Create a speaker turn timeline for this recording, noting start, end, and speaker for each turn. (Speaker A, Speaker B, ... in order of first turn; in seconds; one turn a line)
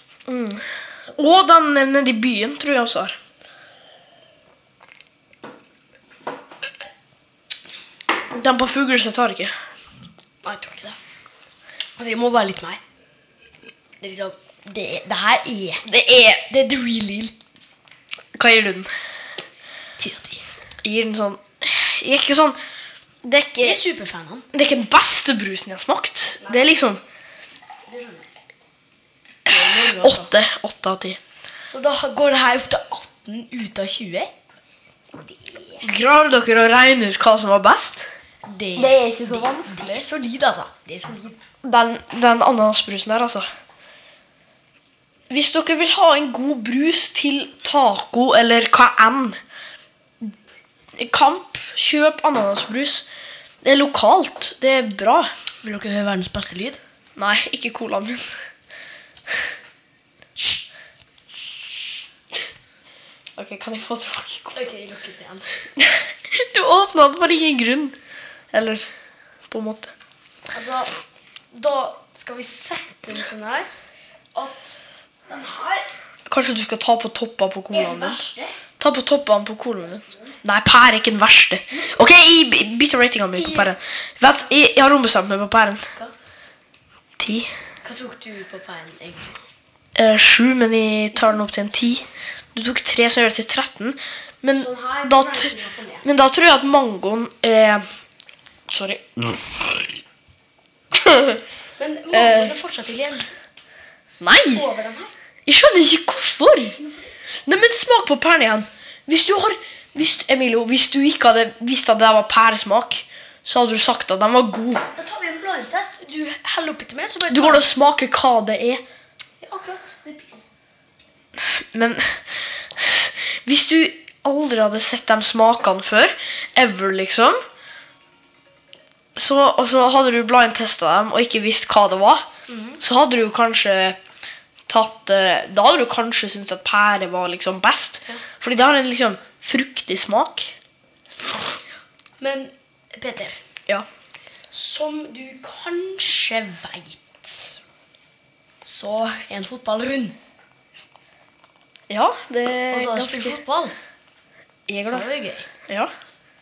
Speaker A: 0.3-3.2
Speaker A: 8.3-9.5
Speaker B: 10.4-11.0
Speaker B: 12.0-12.8
Speaker B: 14.0-15.9
Speaker A: 15.8-16.4
Speaker B: 16.4-17.3
Speaker A: 18.3-18.9
Speaker B: 20.0-20.4
Speaker A: 20.8-22.6
Speaker A: 23.2-23.8
Speaker B: 23.6-24.5
Speaker A: 24.5-27.0
Speaker B: 26.4-26.7
Speaker B: 27.9-28.3
Speaker B: 29.5-30.3
Speaker A: 29.5-31.2
Speaker B: 31.7-34.3
Speaker B: 35.1-35.9
Speaker A: 35.8-38.0
Speaker B: 38.4-41.4
Speaker A: 38.8-39.9
Speaker A: 41.6-43.5
Speaker A: 45.3-49.4
Speaker A: 51.0-53.0
Speaker A: 53.6-55.3
Speaker B: 55.6-56.8
Speaker A: 57.1-58.3
Speaker A: 63.4-64.6
Speaker B: 64.5-65.7
Speaker A: 65.8-68.0
Speaker A: 68.5-68.9
Speaker A: 69.5-69.9
Speaker B: 70.5-70.9
Speaker B: 71.5-73.7
Speaker B: 74.3-75.9
Speaker A: 76.3-78.2
Speaker B: 77.7-78.5
Speaker A: 78.8-85.9
Speaker B: 83.3-83.7
Speaker A: 87.2-87.5
Speaker B: 87.8-89.4
Speaker A: 90.0-95.5
Speaker B: 94.5-96.1
Speaker A: 96.0-97.8
Speaker A: 98.7-100.0
Speaker A: 100.9-101.4
Speaker B: 101.8-103.4
Speaker A: 102.1-102.5
Speaker A: 104.2-104.6
Speaker B: 104.5-105.1
Speaker A: 105.5-106.8
Speaker B: 106.8-107.1
Speaker A: 107.5-114.8
Speaker B: 114.9-117.7
Speaker A: 117.3-118.8
Speaker B: 119.4-120.5
Speaker A: 121.4-127.4
Speaker A: 129.2-132.2
Speaker B: 132.5-132.8
Speaker A: 132.8-134.0
Speaker A: 134.7-140.5
Speaker B: 142.2-143.4
Speaker B: 144.5-147.5
Speaker B: 148.6-150.2
Speaker A: 151.9-153.4
Speaker B: 152.7-153.7
Speaker A: 154.7-155.1
Speaker B: 154.8-155.5
Speaker A: 155.7-155.9